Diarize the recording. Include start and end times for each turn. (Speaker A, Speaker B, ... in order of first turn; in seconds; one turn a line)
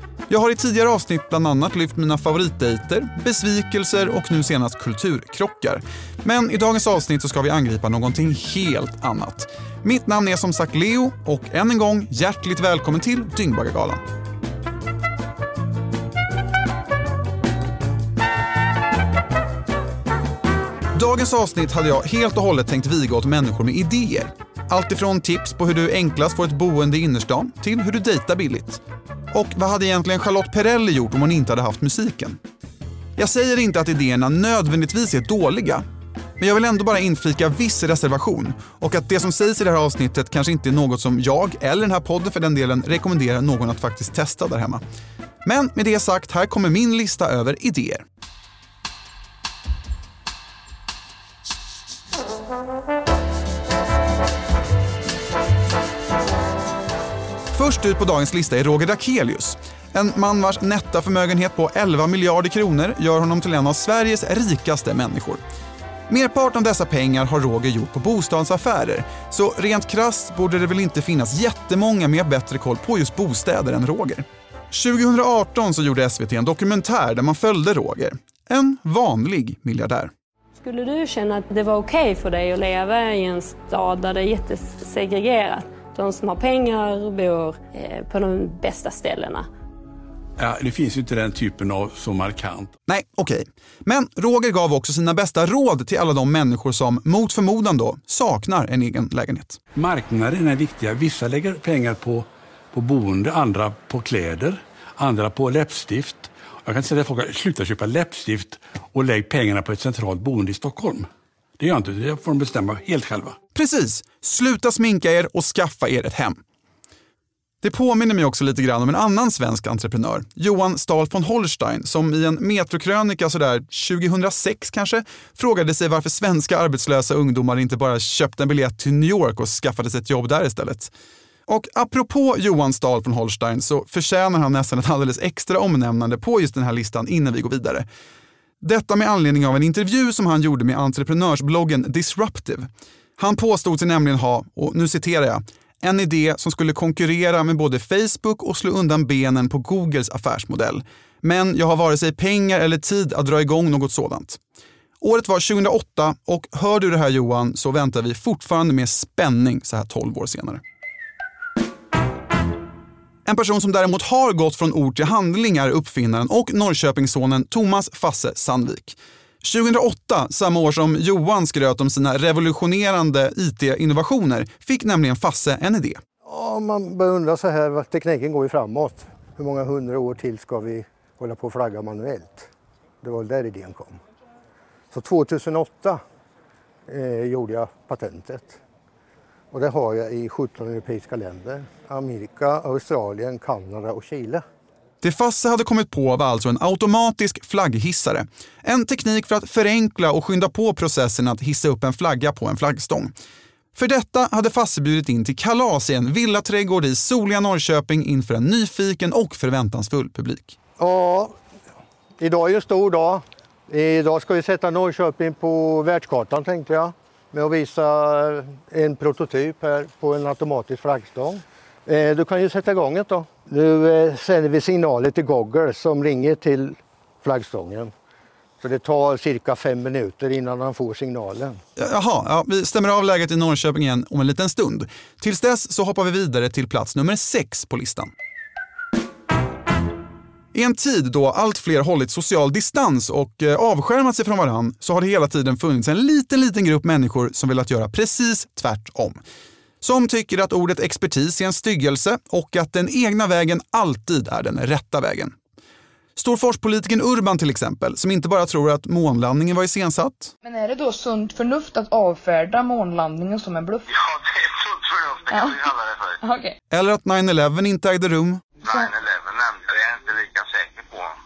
Speaker A: 0.3-14.0
Speaker A: 20.9-28.8
Speaker A: 29.3-32.4
Speaker A: 33.2-35.8
Speaker A: 36.4-44.8
Speaker A: 45.4-48.0
Speaker A: 57.5-65.4
Speaker A: 66.1-80.1
Speaker B: 80.6-89.5
Speaker C: 90.4-92.7
Speaker A: 92.9-99.6
Speaker C: 99.8-111.1
Speaker C: 111.6-113.3
Speaker A: 113.5-116.4
Speaker A: 117.6-130.9
Speaker A: 131.5-137.8
Speaker A: 138.6-154.4
Speaker A: 155.0-160.6
Speaker A: 163.2-176.0
Speaker D: 176.2-182.5
Speaker D: 183.0-184.0
Speaker D: 184.9-186.0
Speaker D: 186.9-188.6
Speaker D: 189.5-194.4
Speaker A: 195.0-203.1
Speaker A: 203.7-210.6
Speaker D: 210.8-211.3
Speaker D: 212.2-227.9
Speaker D: 228.6-231.6
Speaker A: 231.8-238.1
Speaker A: 240.5-249.2
Speaker A: 249.8-255.3
Speaker A: 256.1-260.3
Speaker E: 260.4-263.8
Speaker F: 264.9-265.2
Speaker E: 265.3-265.6
Speaker E: 266.2-266.5
Speaker A: 266.7-268.4
Speaker E: 268.7-268.9
Speaker F: 269.1-271.1